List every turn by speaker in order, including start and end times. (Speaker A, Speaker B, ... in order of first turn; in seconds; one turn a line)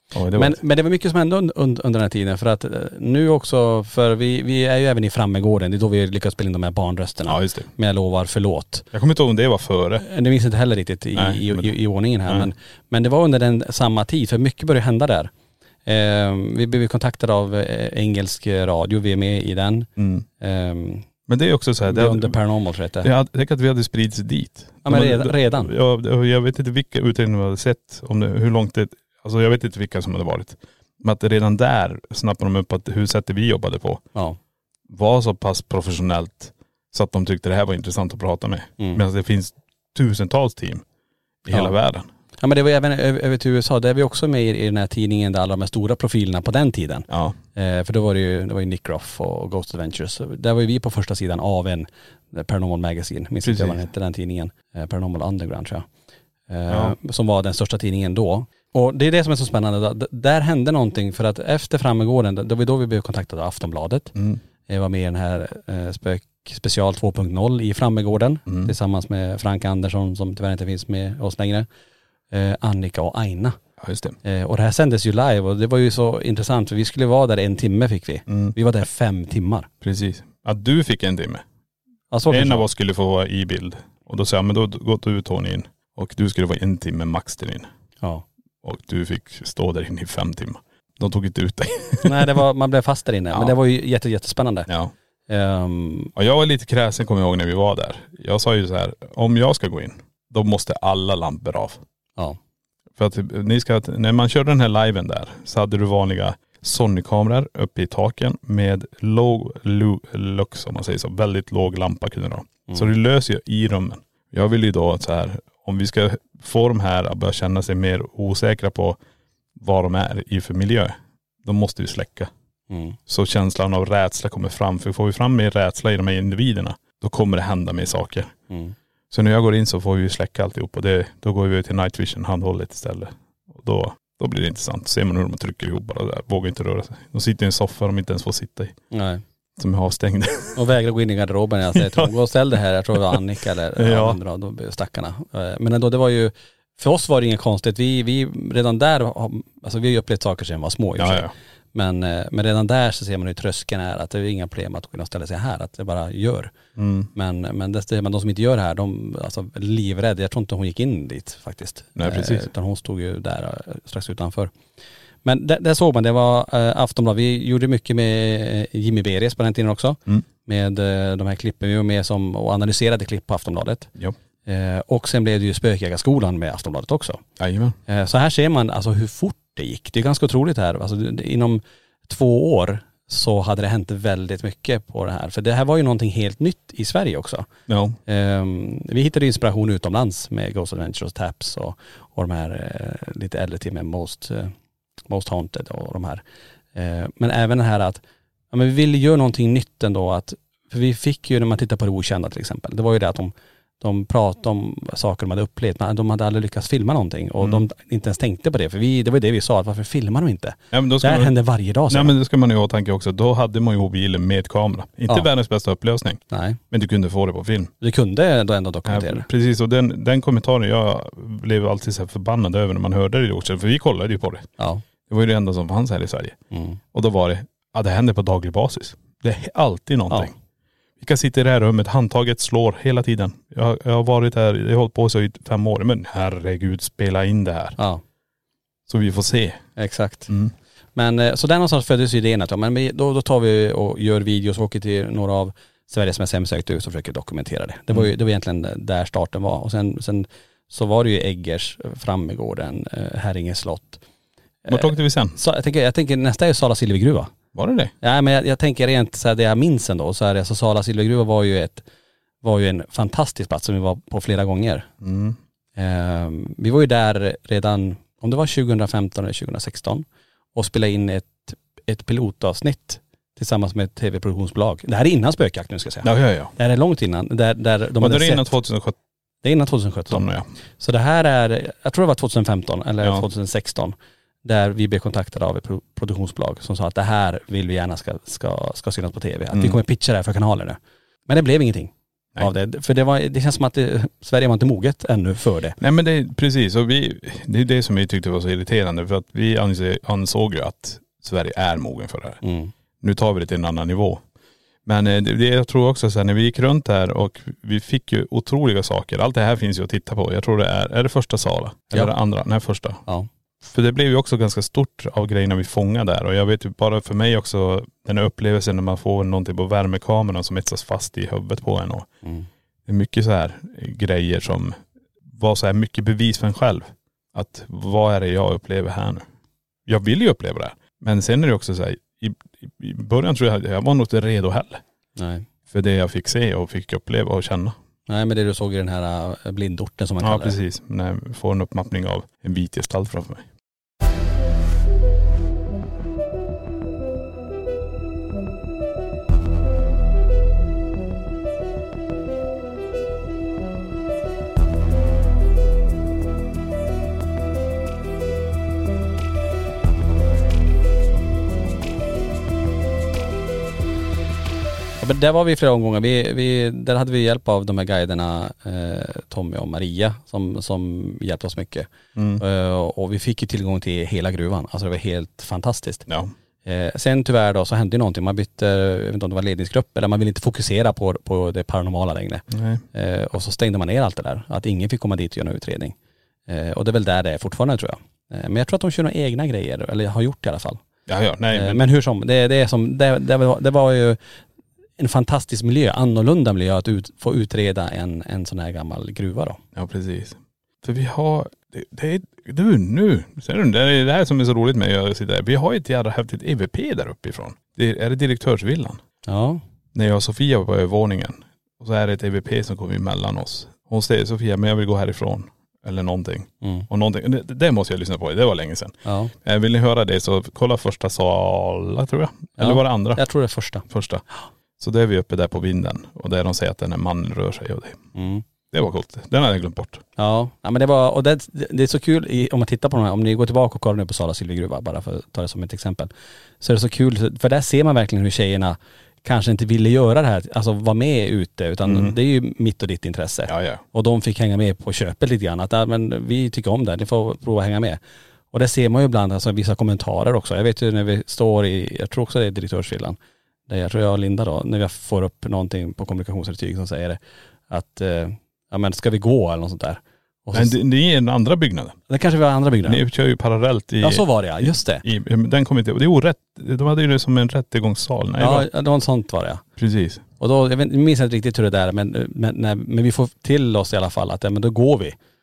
Speaker A: 0.1-0.6
Speaker B: 0.3-8.9
Speaker A: 7.3-7.7
Speaker A: 8.9-10.0
Speaker B: 10.0-15.3
Speaker A: 11.2-11.8
Speaker B: 15.9-21.1
Speaker A: 20.0-20.3
Speaker A: 21.3-22.4
Speaker B: 21.9-23.1
Speaker A: 23.0-34.0
Speaker B: 24.9-25.7
Speaker A: 34.9-40.8
Speaker A: 41.4-42.1
Speaker B: 42.4-55.9
Speaker A: 47.1-47.4
Speaker A: 53.4-53.8
Speaker B: 56.5-64.1
Speaker A: 56.7-57.0
Speaker A: 64.2-64.4
Speaker B: 64.7-71.7
Speaker A: 68.5-68.7
Speaker B: 72.3-73.6
Speaker A: 73.8-74.2
Speaker B: 74.2-79.7
Speaker A: 78.3-78.6
Speaker A: 79.8-81.4
Speaker B: 82.1-82.7
Speaker A: 82.3-87.7
Speaker A: 88.6-92.4
Speaker B: 92.0-94.7
Speaker A: 94.7-94.9
Speaker B: 95.3-96.1
Speaker A: 96.2-101.8
Speaker A: 103.0-119.0
Speaker A: 119.6-122.3
Speaker B: 122.7-123.0
Speaker A: 123.1-128.3
Speaker B: 128.5-128.8
Speaker A: 129.1-138.8
Speaker B: 138.9-139.2
Speaker A: 139.6-140.6
Speaker B: 140.6-156.5
Speaker A: 141.7-142.1
Speaker A: 143.8-144.2
Speaker A: 151.0-151.3
Speaker A: 156.8-157.1
Speaker B: 157.2-164.5
Speaker A: 162.0-162.5
Speaker B: 165.2-173.9
Speaker B: 174.5-177.2
Speaker A: 177.4-177.8
Speaker B: 177.9-187.5
Speaker A: 187.7-188.0
Speaker B: 188.1-194.5
Speaker B: 195.1-196.2
Speaker B: 196.8-212.2
Speaker A: 207.4-207.7
Speaker A: 210.7-211.4
Speaker A: 211.9-217.7
Speaker B: 216.3-216.6
Speaker B: 217.8-219.3
Speaker A: 218.9-224.5
Speaker B: 224.6-224.8
Speaker A: 225.1-226.4
Speaker B: 226.5-226.8
Speaker A: 226.9-230.3
Speaker A: 231.0-237.8
Speaker A: 238.9-239.7
Speaker B: 239.8-240.3
Speaker B: 241.0-254.0
Speaker B: 254.7-257.3
Speaker A: 254.7-255.4
Speaker A: 257.6-257.9
Speaker B: 258.0-261.8
Speaker B: 262.4-264.9
Speaker A: 265.0-265.4
Speaker B: 265.8-278.5
Speaker A: 276.0-276.5
Speaker A: 278.0-279.0
Speaker B: 279.4-280.2
Speaker A: 280.1-280.5
Speaker B: 280.8-295.8
Speaker A: 289.5-289.8
Speaker A: 295.8-302.4
Speaker B: 302.4-302.7
Speaker A: 303.0-304.2
Speaker A: 304.9-313.0
Speaker A: 313.6-322.1
Speaker A: 322.9-324.8
Speaker A: 325.3-329.2
Speaker A: 329.9-334.8
Speaker B: 335.2-335.5
Speaker A: 335.7-337.8
Speaker B: 338.1-340.6
Speaker A: 340.2-343.5
Speaker B: 365.0-371.9
Speaker A: 372.1-372.4
Speaker B: 372.4-376.1
Speaker A: 376.1-376.3
Speaker B: 376.6-385.9
Speaker A: 382.5-382.8
Speaker B: 386.5-390.8
Speaker A: 391.1-391.8
Speaker B: 391.5-394.2
Speaker B: 395.0-399.6
Speaker A: 399.8-409.0
Speaker B: 409.3-409.6
Speaker A: 409.9-423.2
Speaker B: 416.6-416.9
Speaker B: 419.1-419.3
Speaker B: 422.6-423.9
Speaker A: 423.9-424.2
Speaker A: 424.8-428.0
Speaker B: 428.1-428.4
Speaker A: 428.7-430.0
Speaker B: 430.2-448.0
Speaker A: 441.9-442.2
Speaker A: 443.5-443.8
Speaker B: 448.5-453.2
Speaker B: 453.7-457.2
Speaker B: 457.7-460.8
Speaker A: 460.5-462.0
Speaker B: 462.1-463.0
Speaker A: 462.9-468.7
Speaker B: 464.0-465.1
Speaker B: 468.4-469.6
Speaker A: 469.8-470.2
Speaker B: 470.4-475.1